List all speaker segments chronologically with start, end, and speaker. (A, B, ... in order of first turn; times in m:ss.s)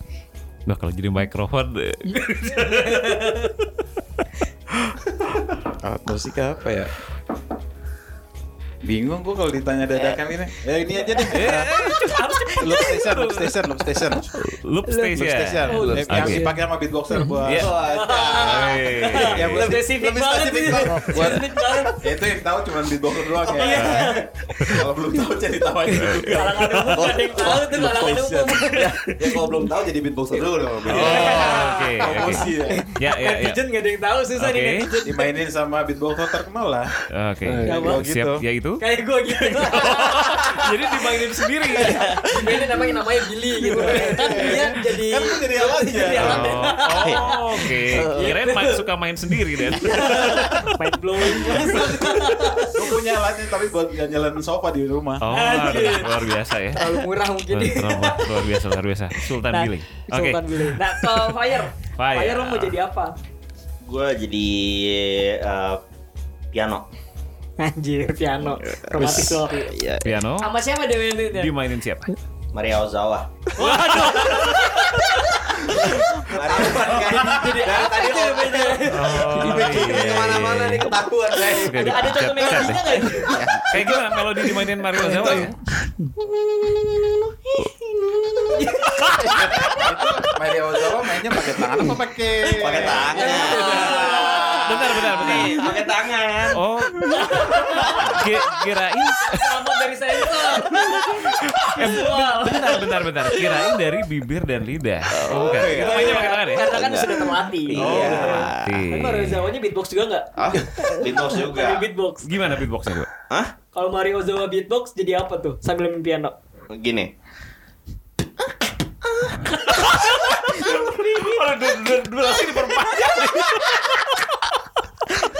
0:00.6-0:03.4 A
0:02.1-0:03.5 B
0:05.8-0:06.9 C
0:08.8-0:11.8 C
0:09.9-0:10.2 D
0:11.3-0:13.6 A
0:12.6-0:14.3 C
0:14.3-0:16.5 A
0:14.9-0:16.6 B
0:15.1-0:17.7 C
0:17.1-0:22.1 B
0:17.4-0:17.8 A
0:17.5-0:18.5 D
0:17.6-0:18.0 E
0:18.3-0:19.6 A
0:19.2-0:20.1 C
0:20.6-0:27.0 C
0:23.3-0:24.8 B
0:23.6-0:24.9 A
0:25.9-0:29.4 B
0:25.9-0:27.2 A
0:26.9-0:30.5 E
0:30.3-0:31.6 D
0:30.3-0:32.9 C
0:30.8-0:33.6 A
0:30.9-0:35.3 B
0:34.4-0:34.9 A
0:35.0-0:36.9 C
0:37.1-0:38.8 A
0:37.4-0:37.8 E
0:37.6-0:38.0 B
0:37.7-0:38.4 C
0:38.8-0:48.8 B
0:39.4-0:42.7 A
0:43.6-0:46.7 C
0:46.2-0:50.5 A
0:47.0-0:47.2 D
0:47.9-0:48.3 D
0:49.6-0:52.9 B
0:50.2-0:50.6 C
0:52.7-0:55.3 C
0:55.2-1:01.3 A
0:55.3-0:58.6 B
0:59.1-1:03.1 B
1:02.0-1:02.8 A
1:03.8-1:05.8 D
1:06.5-1:06.9 D
1:07.6-1:11.5 B
1:09.0-1:09.4 D
1:10.0-1:10.5 A
1:11.2-1:12.2 A
1:12.5-1:13.3 D
1:13.6-1:16.3 B
1:13.7-1:14.5 A
1:15.9-1:17.9 D
1:16.4-1:22.6 E
1:16.7-1:17.4 C
1:17.1-1:19.5 B
1:18.8-1:25.6 A
1:19.5-1:21.0 D
1:21.5-1:23.5 B
1:23.3-1:23.7 C
1:23.3-1:23.9 D
1:24.9-1:25.5 B
1:25.1-1:25.4 C
1:26.2-1:27.1 B
1:28.0-1:29.8 B
1:28.3-1:28.6 D
1:29.1-1:33.3 C
1:32.6-1:36.6 D
1:33.2-1:35.6 B
1:33.2-1:35.8 A
1:36.5-1:39.6 A
1:37.0-1:38.3 B
1:39.2-1:42.8 B
1:40.4-1:46.8 A
1:43.4-1:43.6 B
1:45.1-1:49.0 D
1:45.3-1:45.7 C
1:45.5-1:52.4 B
1:47.7-1:49.5 A
1:47.8-1:48.0 C
1:50.4-1:51.9 D
1:52.2-1:53.1 A
1:53.7-1:56.3 B
1:56.7-1:57.1 D
1:59.6-2:04.5 A
2:00.6-2:01.4 B